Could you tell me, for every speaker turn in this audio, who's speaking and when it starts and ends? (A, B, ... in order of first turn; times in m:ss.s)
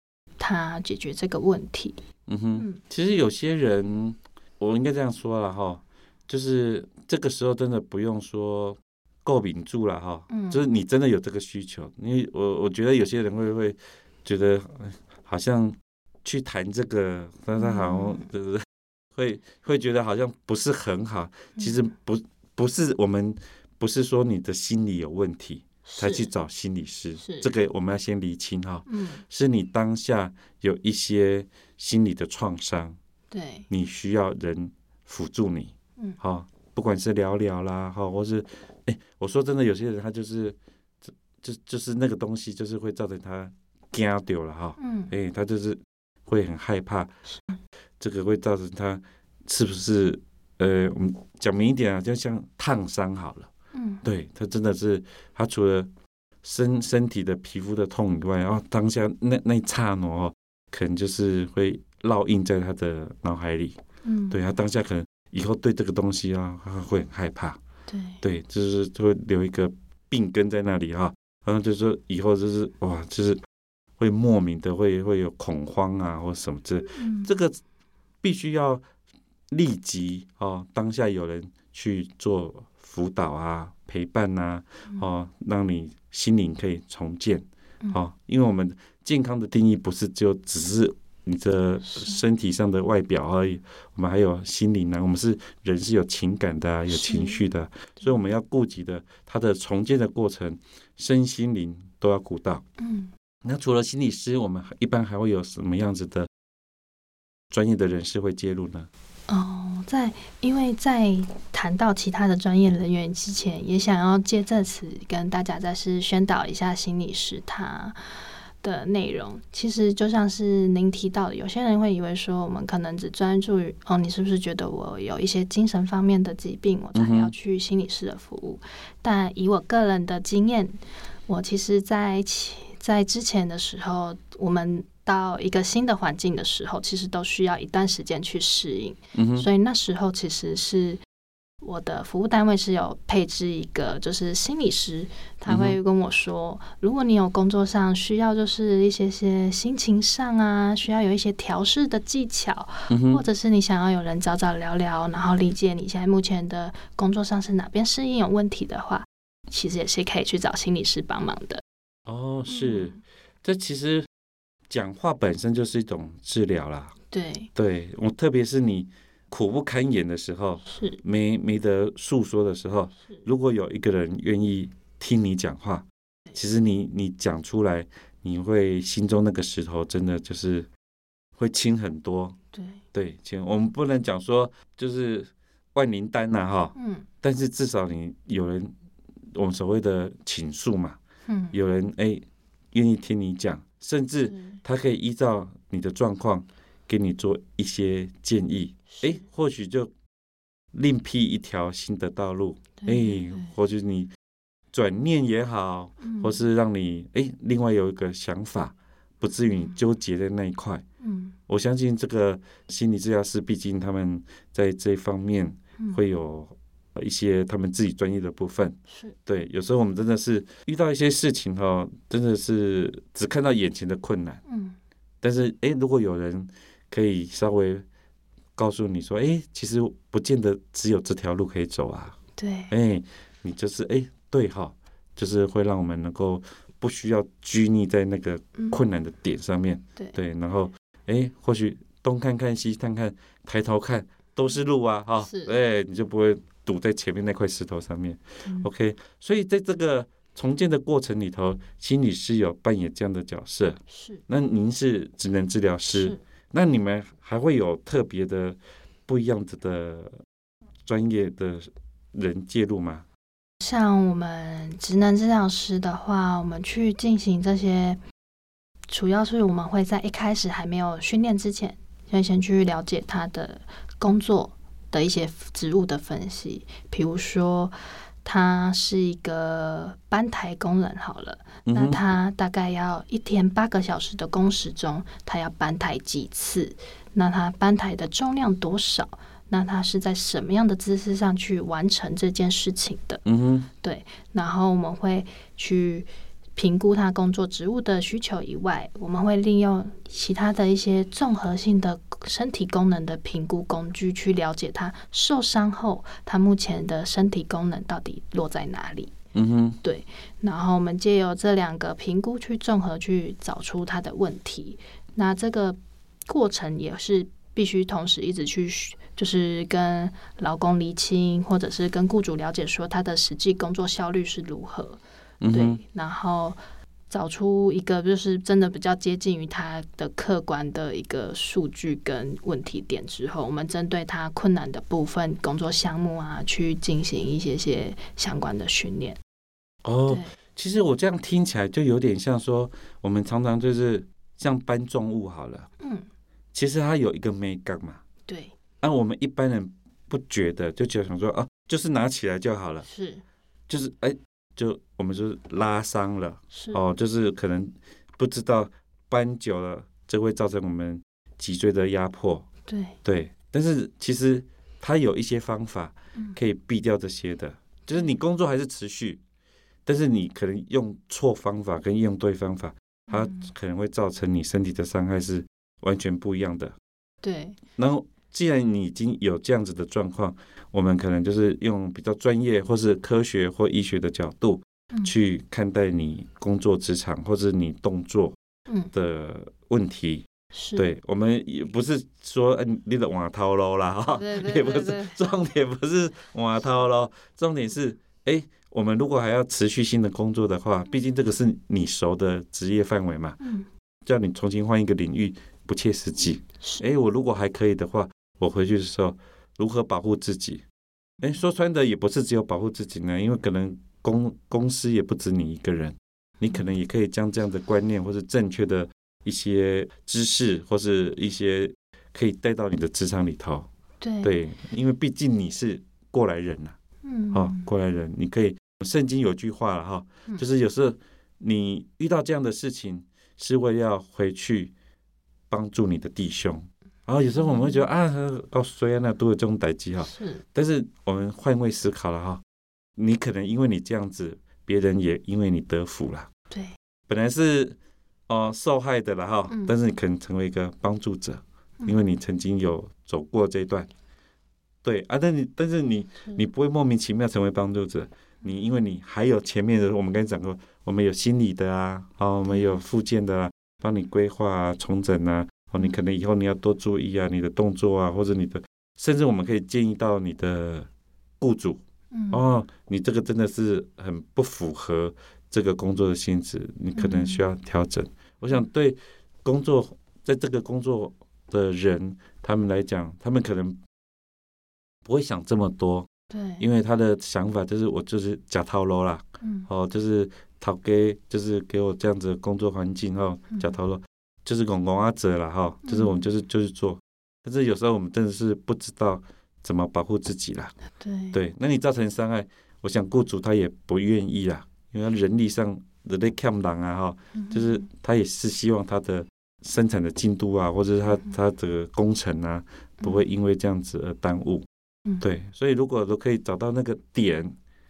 0:00.4-0:02.0 A
0:02.3-0:18.6 B
0:10.3-0:10.7 A
0:17.5-0:18.2 A
0:19.2-0:33.0 B
0:25.8-0:26.3 A
0:27.2-0:27.5 A
0:28.8-0:29.2 A
0:33.3-0:33.7 A
0:33.7-0:40.6 B
0:41.1-0:47.1 B
0:44.8-0:45.1 A
0:47.2-0:47.6 A
0:48.0-0:53.5 B
0:53.7-0:54.0 A
0:54.0-0:55.9 B
0:56.4-1:03.8 B
1:04.0-1:04.4 A
1:04.3-1:07.6 B
1:07.9-1:08.2 A
1:08.2-1:13.4 B
1:14.0-1:17.6 B
1:16.9-1:17.3 A
1:18.2-1:18.8 B
1:19.5-1:42.6 B
1:31.8-1:32.2 A
1:36.9-1:37.5 A
1:42.8-1:43.1 A
1:43.4-1:46.3 B
1:47.5-1:48.9 B
1:49.3-1:58.0 A
1:58.6-2:21.0 A
2:06.9-2:07.3 B
2:19.1-2:19.5 B
2:21.6-2:41.6 A
2:25.5-2:25.8 B
2:32.9-2:33.2 B
2:42.1-2:44.1 B
2:42.5-2:43.0 A
2:44.7-2:46.9 B
2:47.1-2:47.5 A
2:47.5-3:00.7 B
2:50.6-2:51.0 A
3:01.4-3:02.4 B
3:02.5-3:02.8 A
3:02.9-3:08.7 B
3:06.7-3:07.1 A
3:09.3-3:11.0 B
3:11.2-3:11.6 A
3:11.5-3:19.9 B
3:14.2-3:14.6 A
3:18.9-3:19.2 A
3:20.7-3:24.1 B
3:22.8-3:23.5 A
3:24.7-3:30.8 B
3:26.0-3:26.4 A
3:31.0-3:31.3 A
3:31.5-3:44.4 B
3:38.9-3:39.2 A
3:44.4-3:44.7 A
3:45.2-3:47.8 B
3:48.6-3:52.2 B
3:52.4-3:52.7 A
3:52.7-4:20.2 B
4:05.2-4:05.6 A
4:08.4-4:08.7 A
4:13.9-4:14.2 A
4:15.9-4:16.2 A
4:20.8-4:23.0 B
4:23.6-4:28.0 A
4:28.9-4:53.2 A
4:41.6-4:42.0 B
4:53.2-4:53.7 B
4:53.8-5:09.1 A
5:09.3-5:09.8 B
5:09.8-5:39.2 A
5:25.4-5:25.8 B
5:39.8-5:45.7 B
5:40.1-5:40.3 A
5:45.8-5:46.0 A
5:46.5-5:48.0 B
5:48.3-5:48.5 A
5:48.8-5:52.8 B
5:52.8-5:53.2 A
5:53.7-6:02.5 B
5:56.5-5:56.8 A
6:02.7-6:03.0 A
6:03.0-6:09.2 B
6:09.8-6:16.7 B
6:13.1-6:13.5 A
6:17.2-6:17.6 A
6:17.8-6:28.4 B
6:28.9-6:43.4 B
6:30.5-6:30.9 A
6:34.1-6:35.3 A
6:43.4-6:43.7 A
6:44.0-6:50.6 B
6:46.6-6:46.9 A
6:51.2-7:03.7 B
7:04.0-7:04.4 A
7:04.2-7:06.7 B
7:07.0-7:07.7 A
7:07.3-7:14.7 B
7:15.5-7:22.4 B
7:17.3-7:17.8 A
7:20.0-7:20.4 A
7:23.0-7:26.3 B
7:27.1-7:27.8 B
7:28.3-7:33.9 B
7:29.5-7:29.7 A
7:34.8-7:50.9 B
7:42.5-7:42.8 A
7:51.4-8:03.8 B
7:52.1-7:52.4 A
7:56.9-7:57.4 A
8:05.0-8:06.1 B
8:06.3-8:06.7 A
8:06.6-8:20.7 B
8:09.4-8:09.7 A
8:15.8-8:16.2 A
8:21.0-8:21.4 A
8:21.3-8:34.6 B
8:27.3-8:27.8 A
8:35.2-8:37.5 B